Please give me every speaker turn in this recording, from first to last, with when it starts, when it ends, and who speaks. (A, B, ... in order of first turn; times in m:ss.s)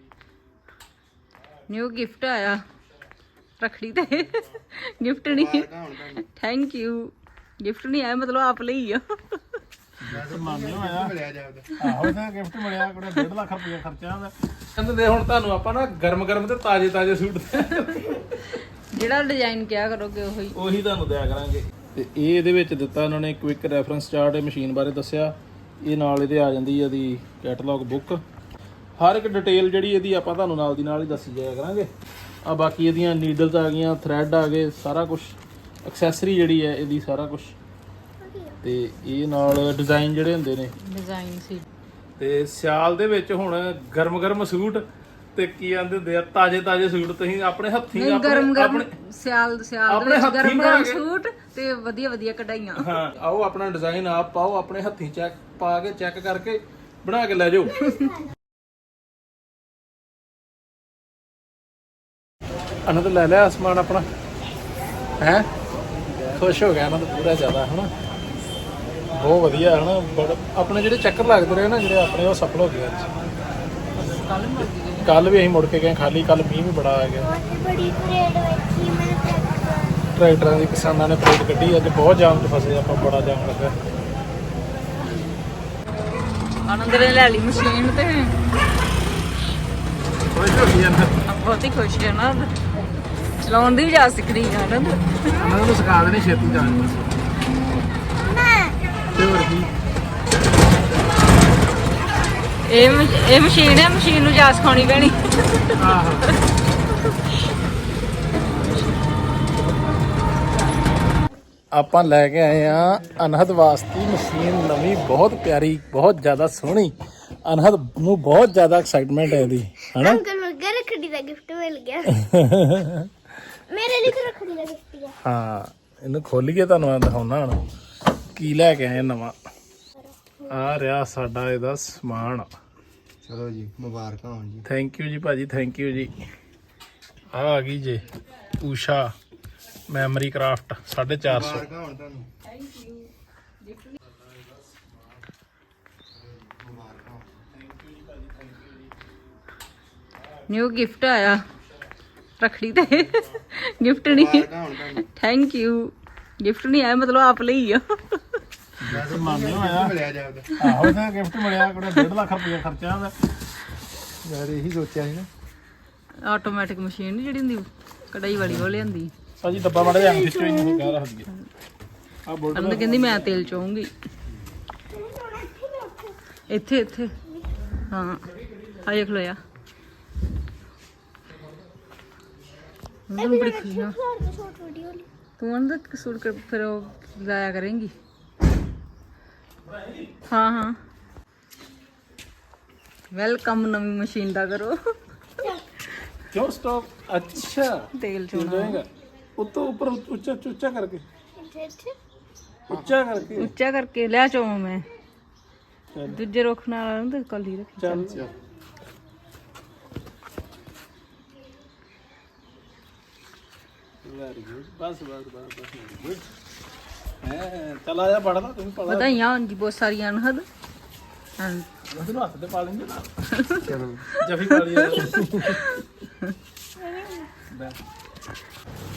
0:01.7-0:02.6 A
0:03.6-0:09.4 A
0:05.2-0:06.2 B
0:10.0-0:11.2 C
0:10.1-0:11.7 B
0:11.8-0:18.5 C
0:11.8-0:12.1 A
0:18.9-0:20.6 A
0:20.5-0:28.2 C
0:29.0-0:31.9 C
0:32.4-0:37.5 C
0:38.2-0:38.6 D
0:38.6-0:40.7 C
0:40.8-0:41.6 A
0:42.2-0:44.8 C
0:45.3-0:48.9 C
0:47.9-0:52.9 A
0:49.9-0:51.0 C
0:52.8-0:57.9 C
0:57.7-0:58.0 A
0:57.9-0:58.2 D
1:02.8-1:04.0 C
1:05.2-1:05.5 C
1:06.3-1:07.9 C
1:09.1-1:13.1 C
1:14.0-1:15.4 A
1:15.0-1:17.3 C
1:17.2-1:20.0 D
1:20.1-1:23.7 C
1:26.6-1:28.3 A
1:30.3-1:31.2 C
1:31.2-1:32.5 A
1:33.4-1:35.5 A
1:35.3-1:37.2 C
1:38.1-1:39.2 D
1:39.1-1:39.7 C
1:42.7-1:46.3 A
1:42.7-1:43.0 D
1:45.8-1:46.4 C
1:51.7-2:00.2 C
1:59.4-2:02.2 D
2:02.2-2:03.1 C
2:03.7-2:05.2 D
2:05.2-2:07.6 C
2:08.3-2:09.4 C
2:10.0-2:10.6 D
2:10.5-2:12.5 C
2:13.2-2:14.6 B
2:14.6-2:16.1 C
2:17.3-2:19.1 C
2:19.9-2:21.7 C
2:21.2-2:22.3 B
2:22.4-2:23.1 A
2:26.2-2:27.4 B
2:27.6-2:28.7 C
2:30.5-2:31.4 A
2:32.4-2:38.4 A
2:34.0-2:35.0 B
2:38.8-2:40.0 C
2:38.9-2:40.5 B
2:40.6-2:43.1 C
2:40.6-2:42.1 A
2:44.2-2:45.3 B
2:46.2-2:49.1 A
2:49.4-2:51.3 C
2:49.8-2:50.9 D
2:52.2-2:53.6 C
2:52.5-2:53.9 A
2:54.9-2:56.2 D
2:56.5-2:57.1 A
2:57.8-2:58.3 A
2:58.8-2:59.4 A
3:03.1-3:04.0 A
3:03.2-3:05.1 D
3:05.4-3:07.9 A
3:10.3-3:10.8 A
3:13.1-3:14.7 A
3:16.3-3:21.0 C
3:17.9-3:18.8 A
3:21.4-3:22.0 D
3:22.7-3:23.5 C
3:23.4-3:24.8 A
3:25.9-3:26.2 C
3:26.1-3:28.2 A
3:27.8-3:28.3 C
3:34.0-3:36.3 C
3:37.2-3:39.2 C
3:38.9-3:40.4 A
3:41.4-3:41.7 A
3:41.9-3:45.6 C
3:43.4-3:44.3 A
3:44.8-3:45.8 A
3:46.8-3:47.3 D